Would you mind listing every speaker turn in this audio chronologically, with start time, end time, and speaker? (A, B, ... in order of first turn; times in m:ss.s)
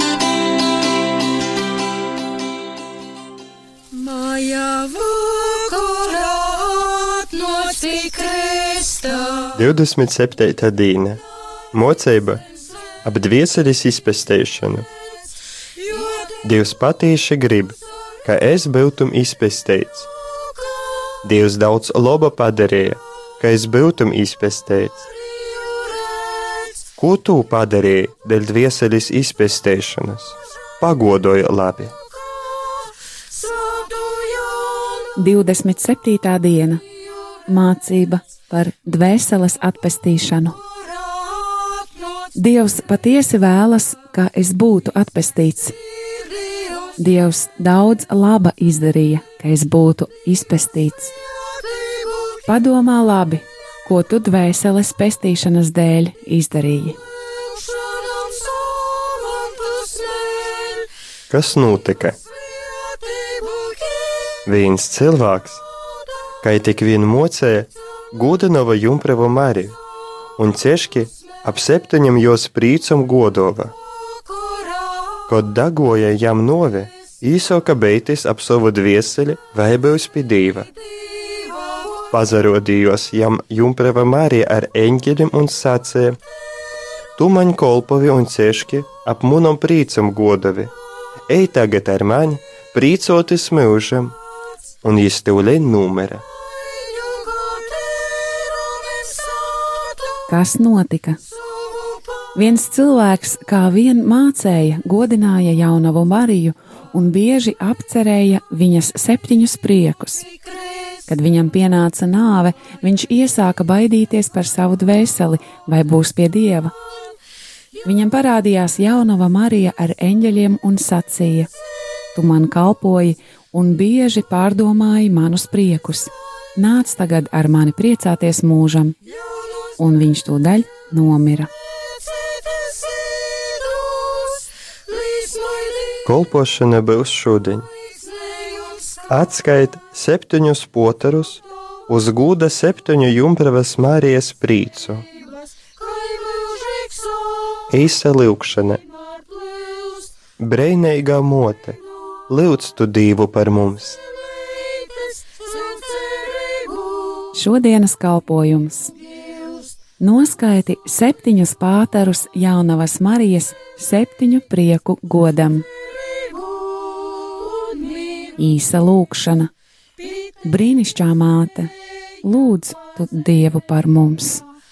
0:03.9-0:09.4 A
0:09.4-0:12.4 B
0:13.0-0:14.9 B
0:16.4-0:20.1 B
0:21.2-0:25.1 B
0:27.0-0:31.9 B
0:35.1-0:36.8 C
0:37.4-0:40.6 C
0:42.3-0:45.8 C
0:47.0-0:51.1 C
0:52.4-0:57.0 C
0:59.5-1:00.3 A
1:01.3-1:02.2 B
1:04.4-1:05.6 B
1:06.4-1:09.8 B
1:10.4-1:13.7 B
1:15.3-1:20.7 B
1:22.1-1:26.2 B
1:27.2-1:30.7 B
1:31.3-1:34.2 B
1:34.8-1:36.2 B
1:40.3-1:41.2 C
1:42.3-1:50.3 C
1:50.9-1:56.7 C
1:57.8-2:01.5 C
2:02.1-2:09.0 C
2:09.8-2:11.5 C
2:16.0-2:17.7 B
2:19.1-2:25.1 B
2:26.2-2:27.1 A
2:27.7-2:28.8 B
2:30.4-2:34.0 B
2:35.6-2:36.7 A
2:37.3-2:45.7 C
2:48.2-2:49.5 C
2:50.4-2:54.4 C